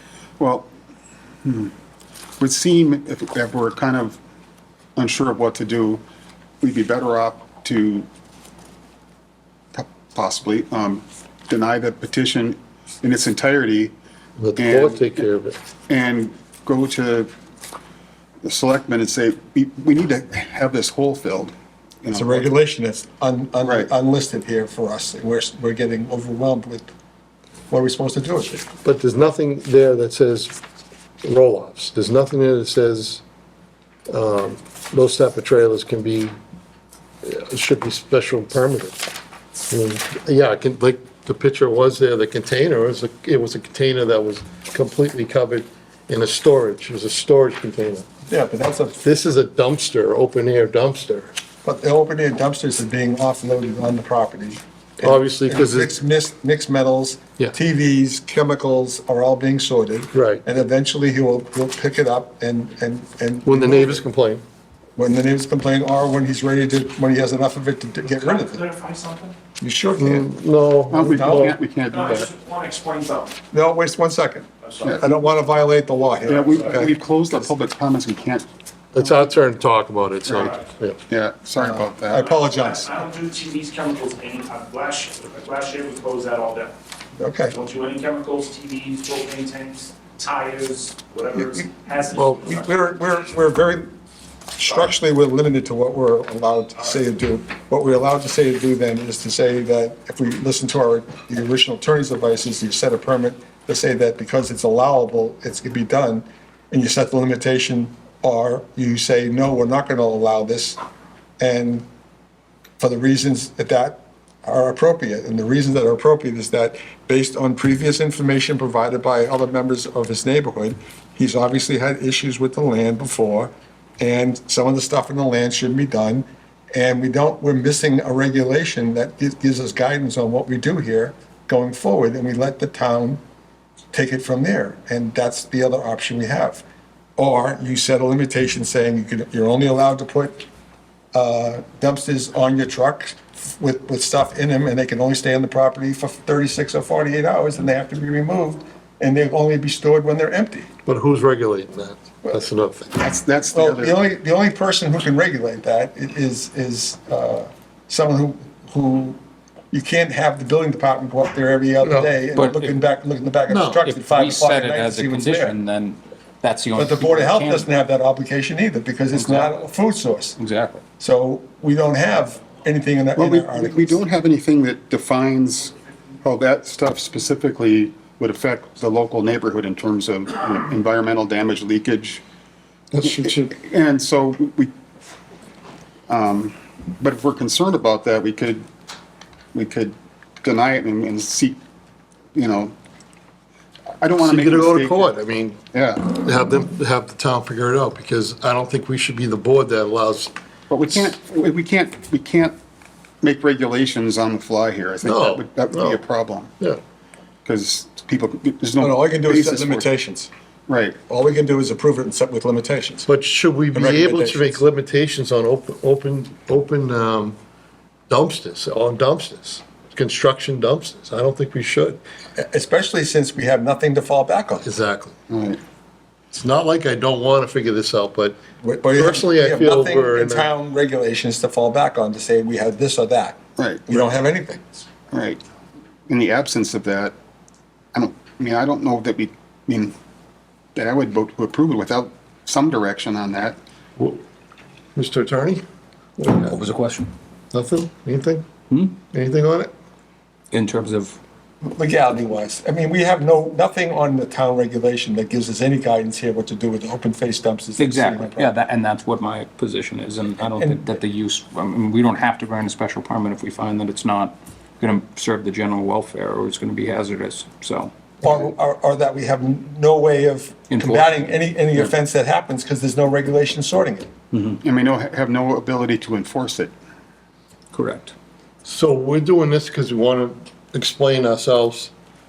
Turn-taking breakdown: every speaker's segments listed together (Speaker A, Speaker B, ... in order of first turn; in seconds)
Speaker A: 0.4-0.7, 1.4-1.7, 2.4-4.2, 5.0-6.0, 6.6-8.1, 9.7-13.9, 14.6-15.2, 15.9-17.3, 18.4-22.5, 23.6-23.9, 70.9-72.3, 76.3-78.5, 80.2-80.5, 81.1-82.3, 153.0-154.0, 173.2-182.2, 183.0-184.7, 186.1-188.7, 189.5-191.6, 192.3-192.7, 194.0-195.1, 195.7-196.1, 200.7-202.6, 203.2-206.5, 207.4-209.9, 210.7-211.0, 225.3-225.6, 233.6-233.9, 235.1-235.4, 236.1-237.2, 237.9-239.9, 240.7-243.6, 274.6-276.7
Speaker B: 14.4-15.6, 28.8-30.6, 31.2-33.2, 34.1-36.4, 37.2-39.0, 39.7-48.0, 49.0-51.3, 55.0-55.9, 60.1-60.4, 63.4-64.4, 70.0-71.5, 78.9-81.0, 150.8-153.0, 161.8-162.1, 163.5-163.8, 182.9-183.5, 194.2-200.3, 205.0-206.0, 213.0-217.4, 218.1-222.0, 224.6-225.2, 226.3-228.4, 228.9-230.5, 244.0-244.2, 244.9-245.6, 246.2-246.6, 247.5-248.4, 249.1-249.7, 278.6-281.9
Speaker C: 22.1-26.9, 27.7-28.6, 48.3-49.0, 51.6-64.0, 65.0-68.6, 69.6-70.3, 71.1-71.5, 73.5-76.8, 81.6-82.9, 87.2-87.5, 92.1-93.9, 94.6-110.8, 111.4-111.8, 112.8-133.2, 133.9-136.6, 137.2-140.4, 141.1-150.7, 153.5-159.2, 159.7-165.6, 166.7-170.3, 171.0-174.0, 208.8-210.3, 211.1-213.1, 213.7-214.6, 222.4-224.7, 228.6-234.8, 251.6-258.5, 268.2-274.1
Speaker D: 68.2-69.3, 71.9-73.3, 82.3-86.7, 87.5-92.7
Speaker E: 162.3-162.8, 163.8-167.7, 169.1-169.5, 170.4-170.8, 246.2-247.1, 248.7-249.0, 250.5-251.2, 257.8-267.9, 270.7-271.2, 274.3-274.6, 277.7-278.1